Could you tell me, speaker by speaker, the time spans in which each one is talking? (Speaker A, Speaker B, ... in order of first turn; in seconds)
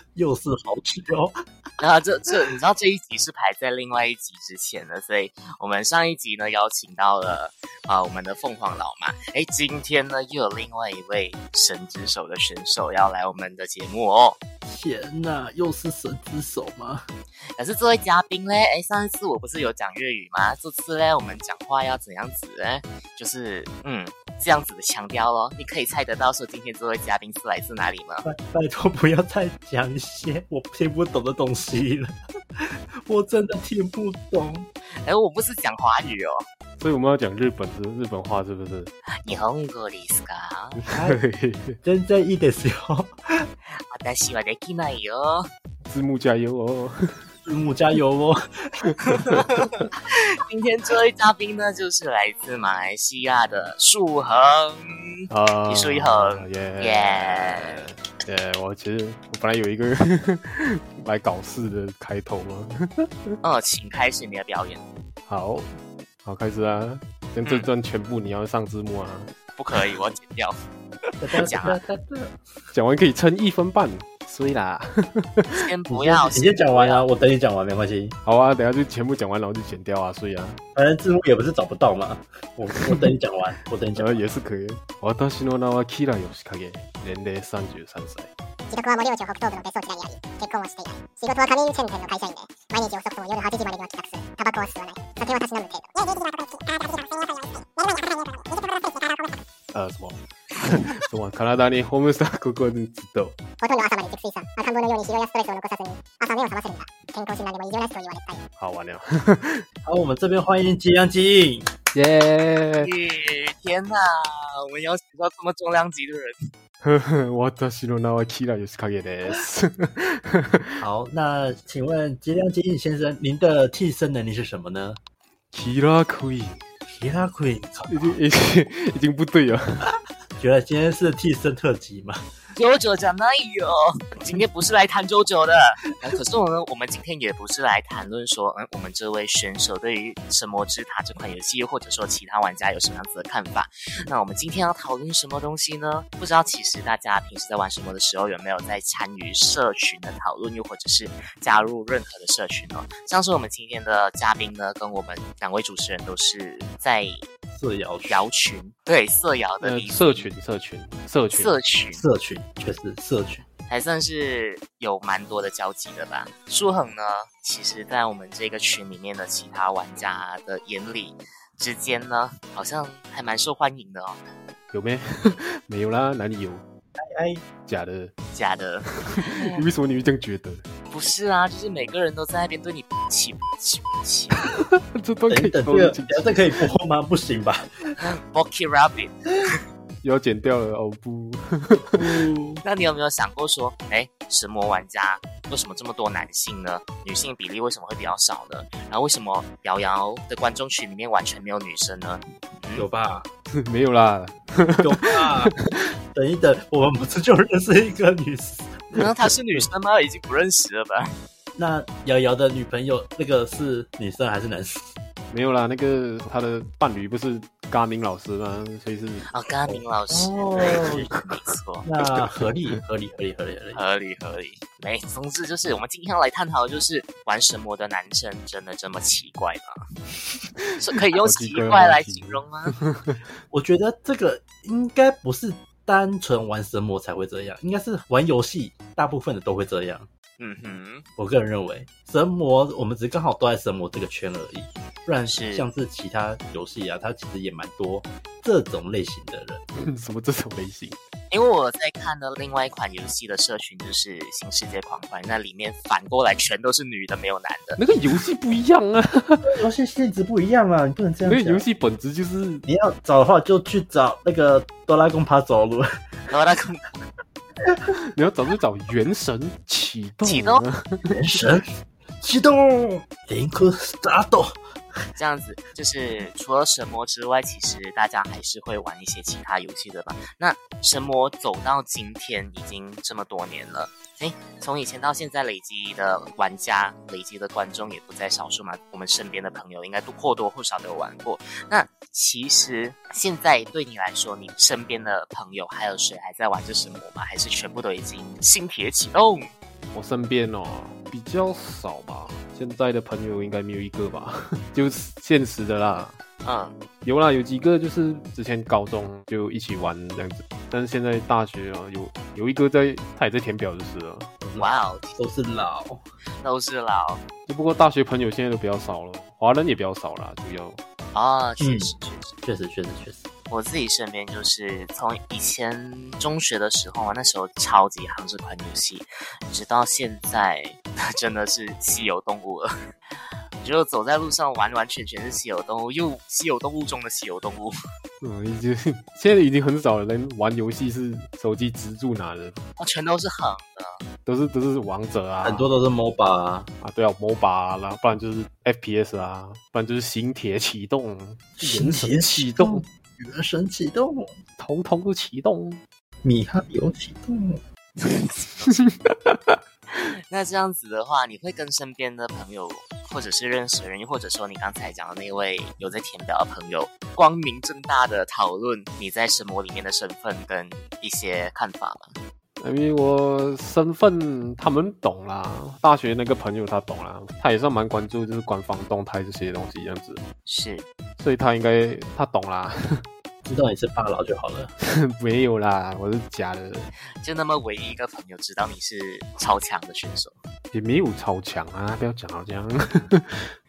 Speaker A: 0.1-1.3, 14.7-17.1, 28.2-34.7, 40.9-41.2, 41.8-43.5, 47.5-49.0, 71.2-72.4, 75.9-78.2, 80.8-84.2, 109.8-111.7, 120.8-125.0, 126.9-128.2, 130.4-132.2, 157.5-158.3, 161.9-163.5, 177.0-177.4, 185.3-188.0, 191.9-192.6, 202.8-203.3, 204.8-205.6, 206.1-208.9, 211.6-214.9, 220.1-221.1, 221.8-223.8, 233.5-240.1, 241.2-249.6, 259.4-261.6, 262.6-266.0, 271.1-271.7, 272.2-274.6, 314.4-316.0, 321.6-323.3, 345.4-346.7, 351.6-354.3, 356.2-357.6, 383.4-384.7
Speaker B: 1.8-14.4, 17.6-28.2, 35.0-36.4, 39.2-40.8, 43.7-45.5, 49.0-54.8, 55.7-57.8, 63.4-64.8, 69.6-70.6, 71.1-71.8, 75.5-77.0, 112.8-116.4, 132.6-157.2, 158.1-160.3, 161.3-162.0, 163.7-174.2, 178.3-179.6, 180.9-184.5, 188.0-189.6, 192.6-202.9, 208.9-211.1, 219.3-221.8, 223.8-229.8, 230.8-232.8, 240.4-241.1, 245.2-245.7, 251.3-257.8, 266.3-266.9, 270.2-270.6, 275.2-299.5, 306.4-306.8, 314.6-315.2, 316.4-317.2, 321.1-322.3, 323.5-332.7, 333.6-337.7, 342.8-344.0, 358.0-358.9, 360.0-372.2, 380.5-380.9, 387.2-390.4
Speaker C: 36.8-38.9, 40.8-41.8, 45.9-47.3, 55.3-63.4, 65.3-65.7, 66.2-69.3, 72.7-75.6, 78.2-80.6, 84.0-88.3, 99.7-103.4, 108.6-109.7, 111.9-112.9, 116.8-120.8, 125.5-126.6, 127.9-129.9, 159.6-161.6, 174.7-176.6, 177.7-178.1, 179.1-180.6, 184.7-186.6, 190.0-192.2, 203.5-205.3, 215.3-219.8, 231.1-233.2, 249.8-251.0, 257.8-259.5, 261.2-262.6, 268.1-271.5, 299.9-306.2, 307.0-314.3, 317.5-320.8, 338.2-342.6, 344.3-345.7, 346.8-352.8, 354.6-355.8, 358.7-359.6, 372.6-380.2, 381.2-383.1, 384.9-386.9, 390.7-393.5
Speaker D: 88.7-99.4, 103.6-108.4